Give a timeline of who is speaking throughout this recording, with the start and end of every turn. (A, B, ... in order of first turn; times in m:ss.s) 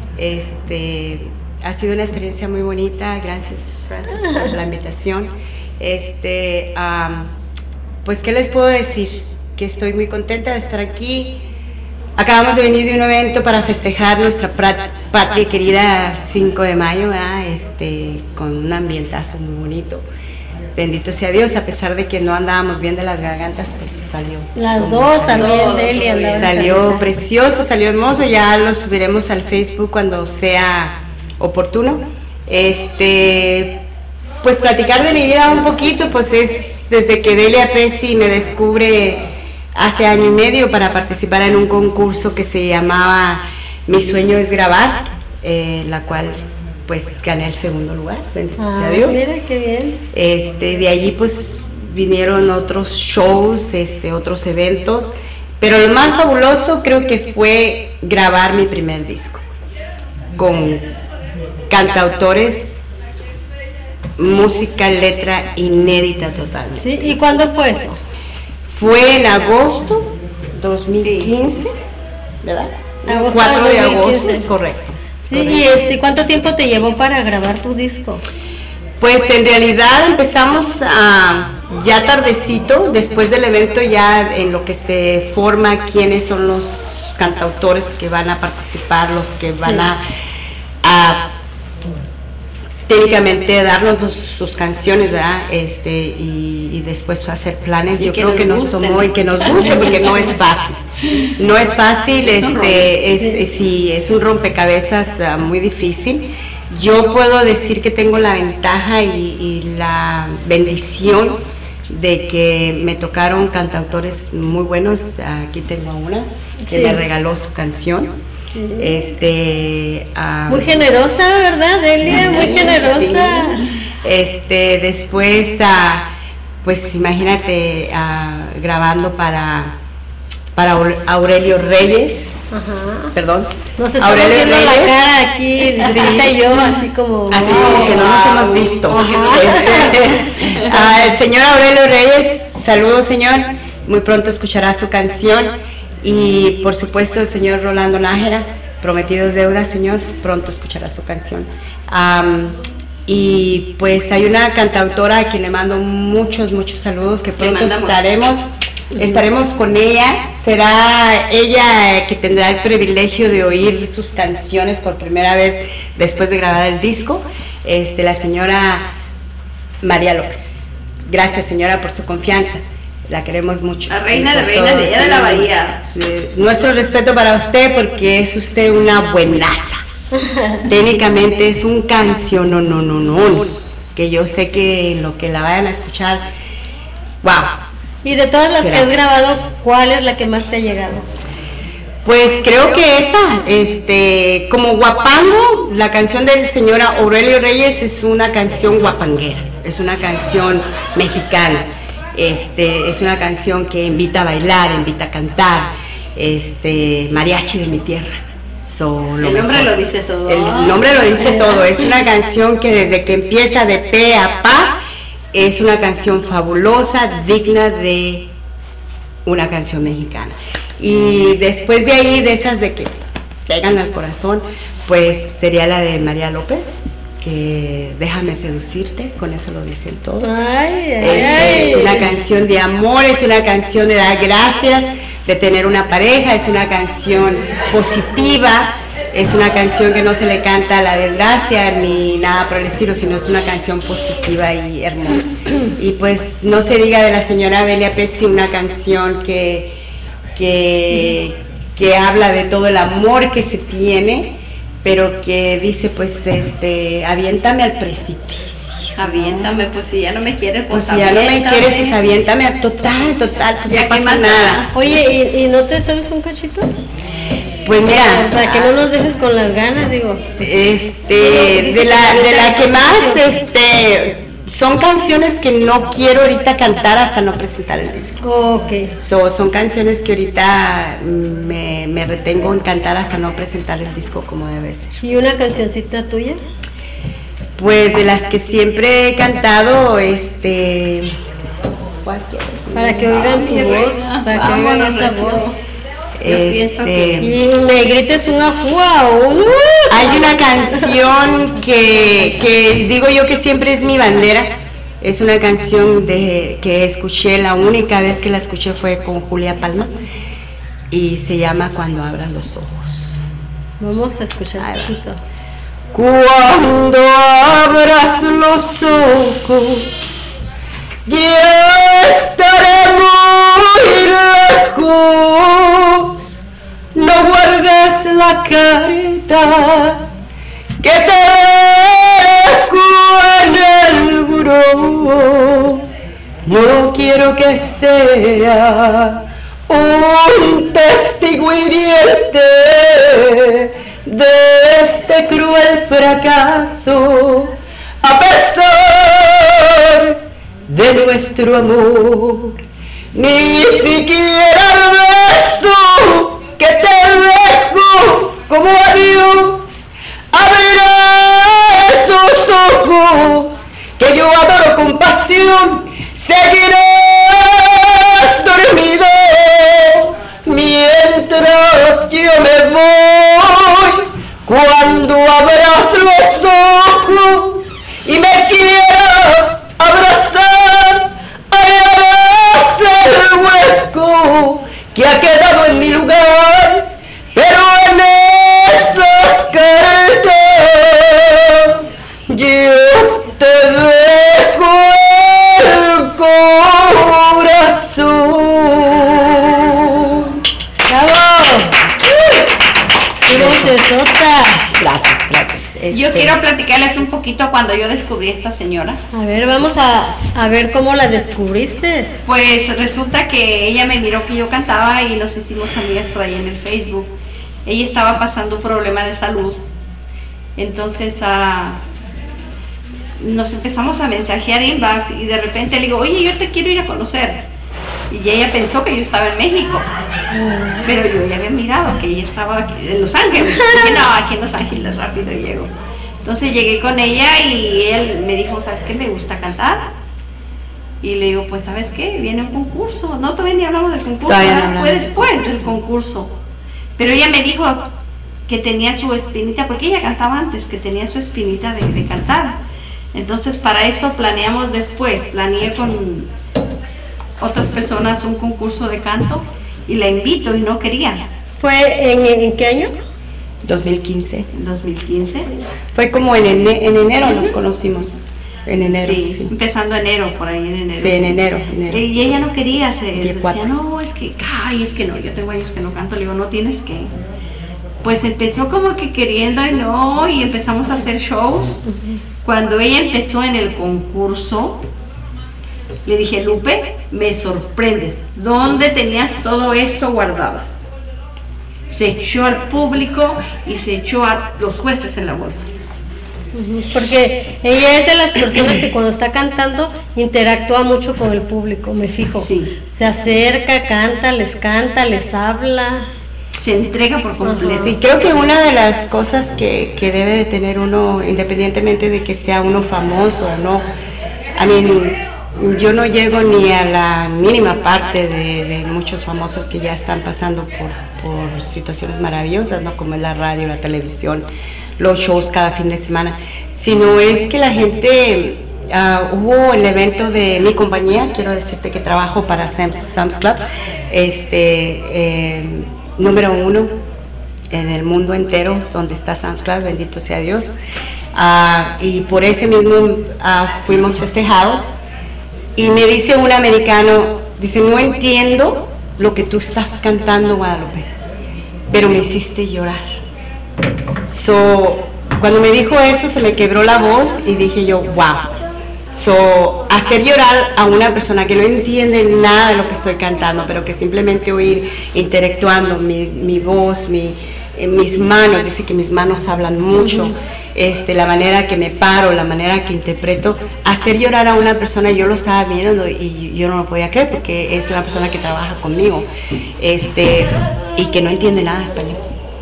0:00.2-0:07.3 A
0:08.0-0:11.3 A
0:12.2-0:20.0 A
0:20.8-0:25.6 A
0:24.6-0:27.0 B
0:25.3-0:27.0 C
0:26.3-0:33.8 A
0:34.4-0:39.2 A
0:39.8-0:49.2 A
0:48.6-0:50.0 B
0:50.1-0:59.5 A
1:00.4-1:00.9 A
1:01.7-1:02.8 A
1:04.2-1:07.2 A
1:06.8-1:08.0 B
1:08.6-1:11.7 A
1:11.0-1:11.4 C
1:12.4-1:15.6 A
1:13.1-1:14.4 B
1:15.2-1:18.2 B
1:19.0-1:30.0 A
1:29.6-1:29.9 B
1:30.8-1:31.3 A
1:32.9-1:40.8 A
1:38.0-1:40.4 C
1:41.3-1:58.1 A
1:42.2-1:42.9 C
1:56.6-1:57.0 B
1:58.6-1:59.0 B
1:58.8-2:00.8 A
2:00.5-2:03.6 B
2:02.0-2:06.1 A
2:06.6-2:09.7 A
2:10.5-2:12.5 A
2:12.5-2:13.1 B
2:13.1-2:14.9 A
2:13.8-2:18.1 B
2:15.7-2:21.1 C
2:15.8-2:16.4 A
2:17.3-2:48.8 A
2:18.9-2:20.0 B
2:37.4-2:38.0 C
2:39.0-2:39.2 B
2:49.8-2:59.8 A
2:53.9-2:55.8 C
3:00.2-3:00.6 B
3:00.7-3:06.2 A
3:07.2-3:07.6 A
3:08.0-3:11.0 B
3:08.6-3:08.9 A
3:12.0-3:29.7 A
3:29.2-3:31.8 C
3:30.2-3:34.8 A
3:35.3-3:38.3 A
3:39.2-3:42.9 A
3:43.5-3:50.3 A
3:50.2-3:52.1 B
3:51.0-4:09.7 A
4:10.3-4:14.3 A
4:14.8-4:19.5 A
4:19.0-4:22.0 C
4:20.7-4:24.6 A
4:23.6-4:24.9 C
4:24.7-4:26.7 B
4:27.6-4:28.3 A
4:27.9-4:30.3 B
4:28.4-4:28.8 C
4:30.4-4:38.2 A
4:31.1-4:33.4 B
4:38.2-4:38.9 B
4:39.0-4:45.0 A
4:45.0-4:46.4 B
4:47.6-4:51.1 A
4:52.0-4:53.4 A
4:52.7-4:55.6 B
4:53.1-4:55.6 C
4:56.2-4:57.4 A
4:56.2-4:57.2 C
4:57.2-5:01.0 B
4:59.9-5:04.5 A
5:05.0-5:09.9 A
5:10.9-5:13.2 A
5:13.8-5:15.2 B
5:14.6-5:14.9 A
5:15.9-5:20.1 A
5:21.0-5:26.4 A
5:26.9-5:30.1 A
5:30.8-5:35.8 A
5:36.4-5:52.6 A
5:53.1-6:40.4 A
6:40.9-6:41.8 B
6:43.3-6:44.6 B
6:43.3-6:43.8 A
6:44.8-6:46.4 A
6:45.9-6:49.0 C
6:49.1-6:52.2 B
6:52.2-6:57.1 C
6:57.6-6:59.6 C
7:00.6-7:01.8 C
7:03.2-7:07.4 C
7:08.1-7:09.9 C
7:10.3-7:10.9 B
7:10.8-7:15.7 C
7:13.5-7:14.0 B
7:16.2-7:19.9 C
7:21.0-7:26.3 C
7:24.3-7:25.7 A
7:27.0-7:27.9 C
7:28.5-7:32.6 C
7:33.1-7:36.3 C
7:37.4-7:41.3 C
7:41.6-7:42.9 B
7:43.6-7:44.5 A
7:44.5-7:45.5 C
7:45.9-7:49.5 A
7:49.0-7:57.1 C
7:50.9-7:52.0 A
7:53.2-7:53.7 A
7:58.0-8:01.8 C
8:01.9-8:02.2 B
8:02.4-8:04.8 C
8:06.0-8:10.6 C
8:11.9-8:15.7 C
8:16.5-8:26.1 B
8:22.3-8:22.7 C
8:26.6-8:27.9 C
8:27.4-8:27.9 B
8:27.5-8:33.9 A
8:34.6-8:44.5 A
8:45.0-8:56.9 A
8:57.7-9:00.7 A
9:01.3-9:04.9 A
9:05.8-9:11.0 A
9:11.9-9:13.0 A
9:14.3-9:18.5 A
9:19.1-9:39.3 A
9:30.0-9:30.3 B
9:39.8-9:42.2 A